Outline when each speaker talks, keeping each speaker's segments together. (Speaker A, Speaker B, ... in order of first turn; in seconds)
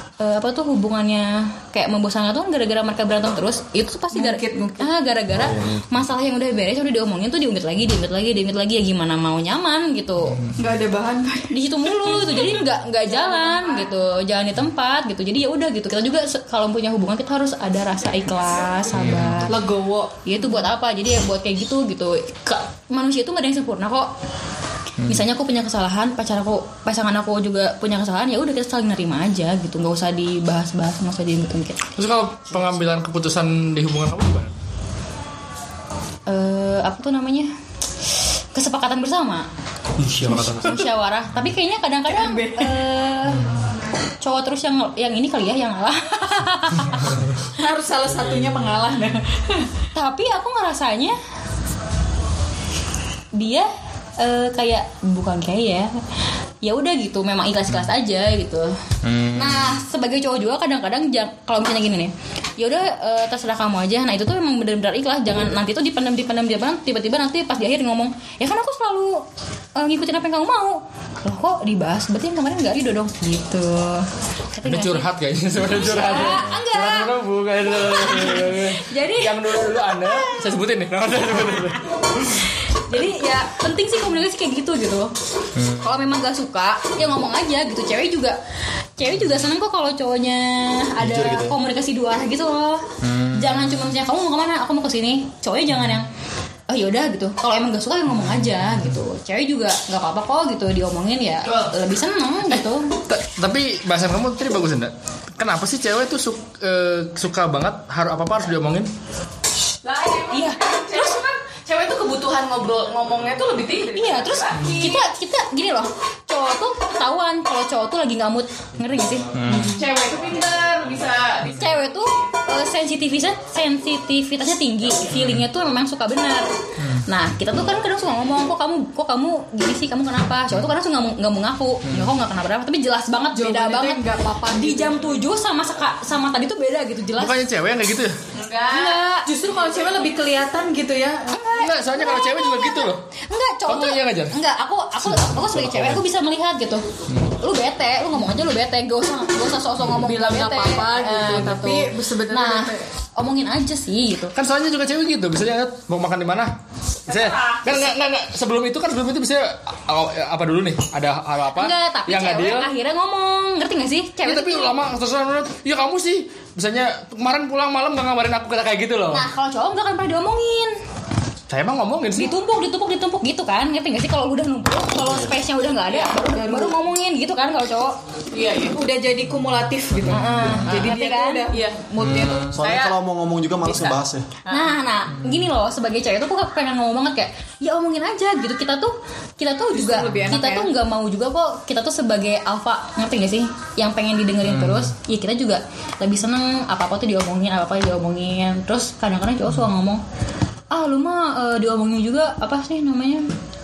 Speaker A: 0.2-10.4, 11.5-19.6, 20.3-24.1, 25.1-31.9, 36.3-37.5, 38.5-39.5, 40.6-43.4, 44.2-47.1, 49.9-51.1, 53.4-53.7, 54.2-55.9, 56.6-58.7, 59.3-69.2, 69.8-77.1, 77.8-79.5, 80.1-80.4, 82.9-85.1, 85.8-88.4, 89.0-96.1, 96.7-102.9, 110.3-111.2, 113.9-119.3, 121.5-126.5, 127.1-137.4, 138.7-139.3, 141.4-154.3, 161.6-164.7, 169.1-170.7, 172.2-178.0, 180.1-181.5, 184.5-200.0, 200.7-203.3
Speaker B: 4.1-4.9, 10.6-13.9, 19.5-20.2, 42.1-42.8, 47.6-49.7, 133.4-135.1, 139.2-141.6, 149.9-152.9, 176.3-176.7, 178.7-182.5, 189.7-190.7
Speaker C: 5.3-6.1, 91.0-91.6, 175.0-175.3, 182.5-184.3
Speaker D: 18.9-19.5, 25.0-25.3, 32.0-34.5, 40.0-40.9, 59.0-59.8, 74.6-81.8, 85.6-85.9, 93.0-93.9, 98.2-98.9, 103.1-108.9, 119.3-119.8, 125.1-125.5, 131.9-132.1, 137.2-138.2, 141.5-143.0, 143.7-144.3, 145.1-146.0, 154.3-156.5, 157.1-162.7, 164.2-169.3, 171.5-172.3, 180.1-180.6, 182.0-182.6, 185.1-185.4, 194.4-194.9
Speaker E: 109.8-115.1, 119.6-122.3, 138.3-139.1, 178.3-178.9, 180.6-181.8, 182.6-183.0, 183.6-184.8